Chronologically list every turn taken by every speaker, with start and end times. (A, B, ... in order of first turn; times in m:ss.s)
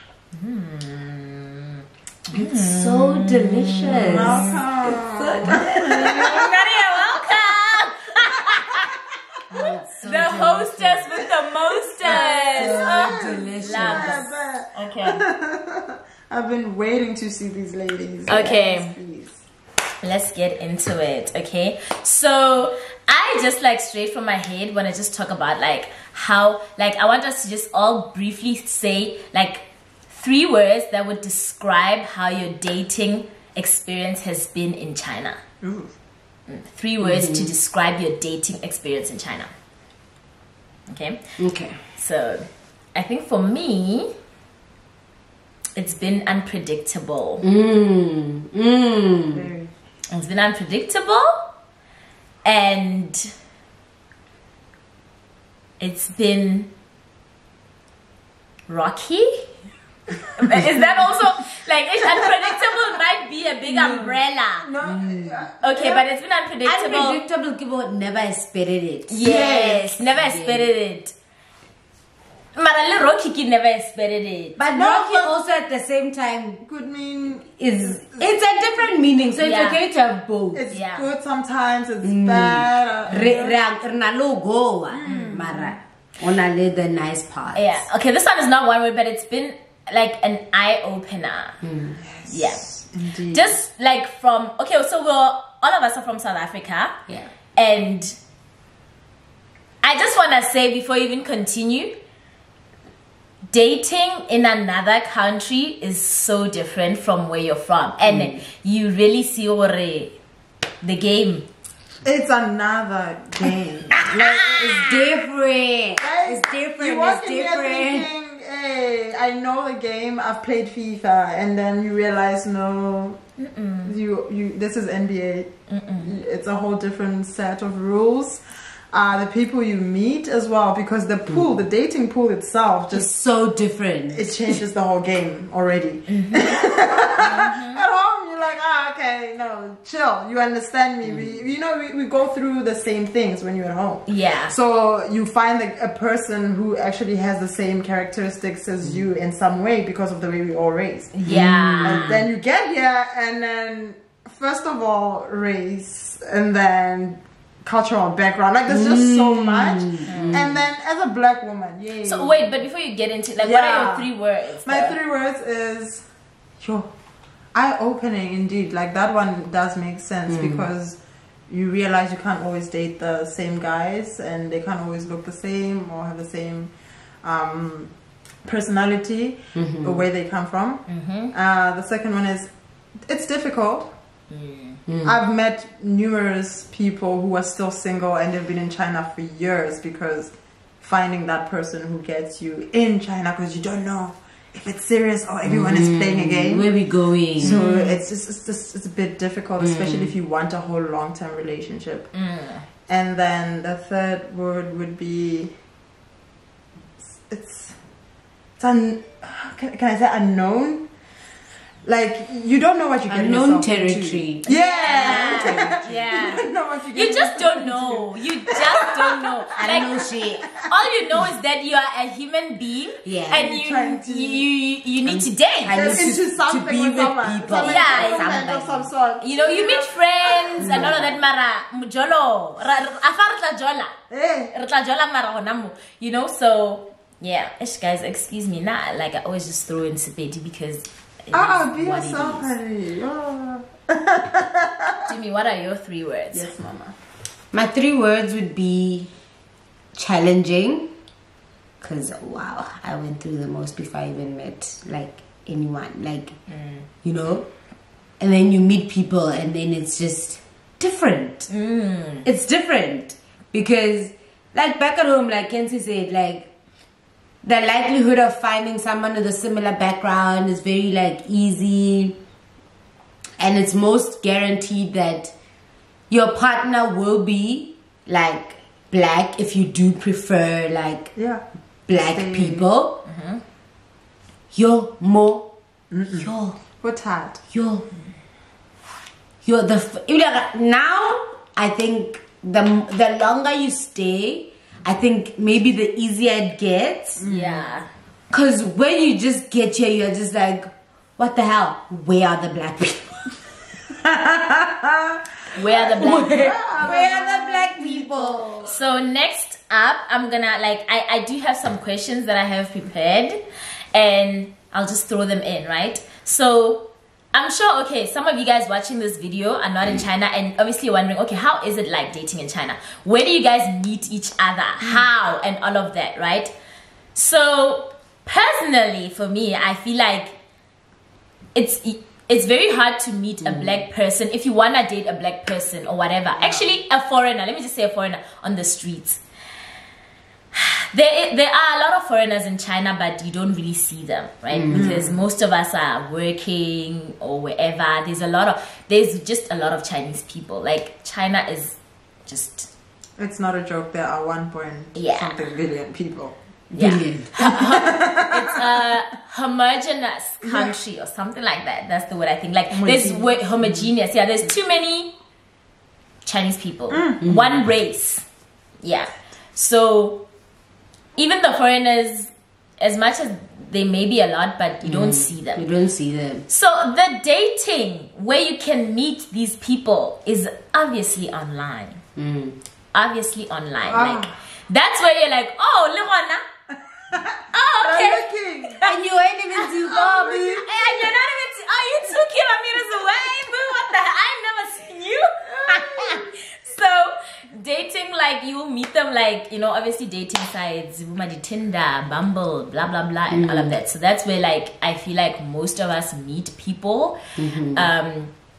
0:00.3-0:04.6 A
0:02.3-0:06.5 B
0:03.9-0:06.5 C
0:05.6-0:08.9 A
0:09.5-0:11.1 B
0:10.0-0:15.2 A
0:12.0-0:19.4 C
0:12.0-0:14.3 B
0:18.3-0:18.9 A
0:20.0-0:35.4 A
0:35.6-0:35.9 C
0:36.5-0:39.5 A
0:37.0-0:37.5 B
0:40.9-0:41.2 A
0:41.4-0:41.8 B
0:41.9-0:44.1 A
0:45.8-0:47.4 A
0:47.4-0:49.5 B
0:49.3-0:49.7 C
0:50.1-0:51.4 A
0:52.4-0:53.3 A
0:55.8-0:56.7 A
0:58.7-0:59.5 A
1:00.3-1:04.7 A
1:00.6-1:01.2 C
1:02.2-1:02.7 C
1:03.7-1:06.0 C
1:04.8-1:05.4 B
1:05.6-1:07.2 A
1:06.6-1:10.7 B
1:09.1-1:11.1 A
1:12.5-1:14.6 A
1:14.6-1:16.6 B
1:14.7-1:15.3 C
1:16.6-1:18.3 C
1:17.6-1:20.6 B
1:19.4-1:19.8 A
1:20.5-1:23.6 C
1:20.7-1:21.1 A
1:22.0-1:27.8 B
1:25.0-1:25.7 C
1:25.1-1:25.3 A
1:27.5-1:31.6 A
1:31.6-1:32.0 B
1:32.0-1:33.6 C
1:32.3-1:32.6 A
1:33.3-1:37.0 A
1:37.6-1:38.2 A
1:39.8-1:42.0 A
1:43.5-1:50.1 A
1:48.0-1:48.4 B
1:50.8-1:51.5 A
1:52.0-1:55.0 C
1:54.0-1:54.9 A
1:54.4-1:58.1 B
1:56.0-2:03.2 C
2:03.4-2:03.9 A
2:03.8-2:05.5 C
2:05.7-2:06.1 A
2:06.0-2:08.4 C
2:08.9-2:13.1 C
2:12.9-2:14.6 B
2:14.1-2:42.5 C
2:16.1-2:16.5 A
2:17.2-2:17.8 A
2:24.1-2:24.5 A
2:31.1-2:32.1 A
2:31.2-2:32.3 B
2:38.7-2:40.6 B
2:40.1-2:40.4 A
2:42.0-2:45.0 A
2:43.4-2:44.1 C
2:44.6-2:46.0 C
2:46.6-2:46.9 C
2:47.5-2:51.0 C
2:50.3-2:50.7 B
2:51.5-2:56.7 C
2:57.2-2:57.9 C
2:58.4-3:02.5 C
2:59.5-3:00.0 B
3:00.9-3:01.3 A
3:03.1-3:03.9 C
3:04.3-3:04.8 A
3:04.9-3:05.2 B
3:05.0-3:16.8 C
3:15.4-3:17.6 B
3:17.4-3:22.1 C
3:17.4-3:18.0 A
3:19.6-3:20.1 B
3:22.1-3:22.6 A
3:22.9-3:25.5 C
3:27.1-3:27.8 C
3:28.6-3:30.8 C
3:31.8-3:39.9 C
3:33.1-3:36.1 B
3:34.4-3:40.0 A
3:39.6-3:40.5 B
3:40.6-3:46.0 A
3:43.0-3:43.5 B
3:43.3-3:44.4 C
3:45.0-3:48.9 B
3:45.7-3:51.1 C
3:47.5-3:48.3 A
3:49.2-3:53.9 A
3:50.6-3:51.1 B
3:54.1-3:54.5 C
3:54.5-4:02.5 A
4:01.3-4:05.1 C
4:05.0-4:06.5 A
4:06.3-4:07.0 C
4:07.5-4:09.1 B
4:09.9-4:10.9 B
4:11.8-4:16.3 B
4:16.5-4:16.8 A
4:17.0-4:17.5 B
4:18.2-4:21.5 B
4:21.5-4:22.2 A
4:22.2-4:26.5 B
4:27.4-4:32.2 B
4:33.4-4:35.3 B
4:36.1-4:41.1 B
4:41.2-4:42.7 C
4:41.9-4:43.0 B
4:43.0-4:43.4 A
4:44.5-4:45.5 B
4:45.9-4:46.3 C
4:46.1-4:46.6 B
4:46.8-4:47.4 C
4:47.5-4:47.8 B
4:49.4-4:57.2 B
4:57.2-4:57.6 C
4:57.2-4:57.9 A
4:58.3-5:03.2 B
5:04.0-5:05.2 C
5:05.5-5:06.6 A
5:05.8-5:08.6 B
5:05.8-5:08.7 C
5:08.6-5:13.4 A
5:13.9-5:26.5 A
5:27.1-5:30.4 A
5:31.5-5:39.2 A
5:33.4-5:33.8 B
5:36.3-5:36.7 C
5:40.5-5:52.7 A
5:44.5-5:45.1 B
5:44.7-5:45.2 C
5:53.2-5:56.3 C
5:54.9-5:55.4 A
5:56.7-6:05.1 A
5:56.8-5:57.7 B
5:57.4-5:58.8 C
6:00.4-6:00.7 C
6:02.7-6:03.9 C
6:06.2-6:08.2 A
6:06.9-6:07.2 C
6:07.2-6:07.6 B
6:08.8-6:10.2 A
6:11.2-6:15.7 A
6:14.8-6:16.4 B
6:16.5-6:22.0 A
6:22.2-6:22.6 B
6:22.9-6:26.4 A
6:23.8-6:24.3 C
6:27.1-6:28.9 C
6:27.5-6:28.9 A
6:28.8-6:30.6 B
6:29.8-6:31.3 C
6:30.5-6:47.2 A
6:35.4-6:36.3 C
6:43.3-6:43.8 B
6:47.4-6:47.9 B
6:47.7-6:48.3 A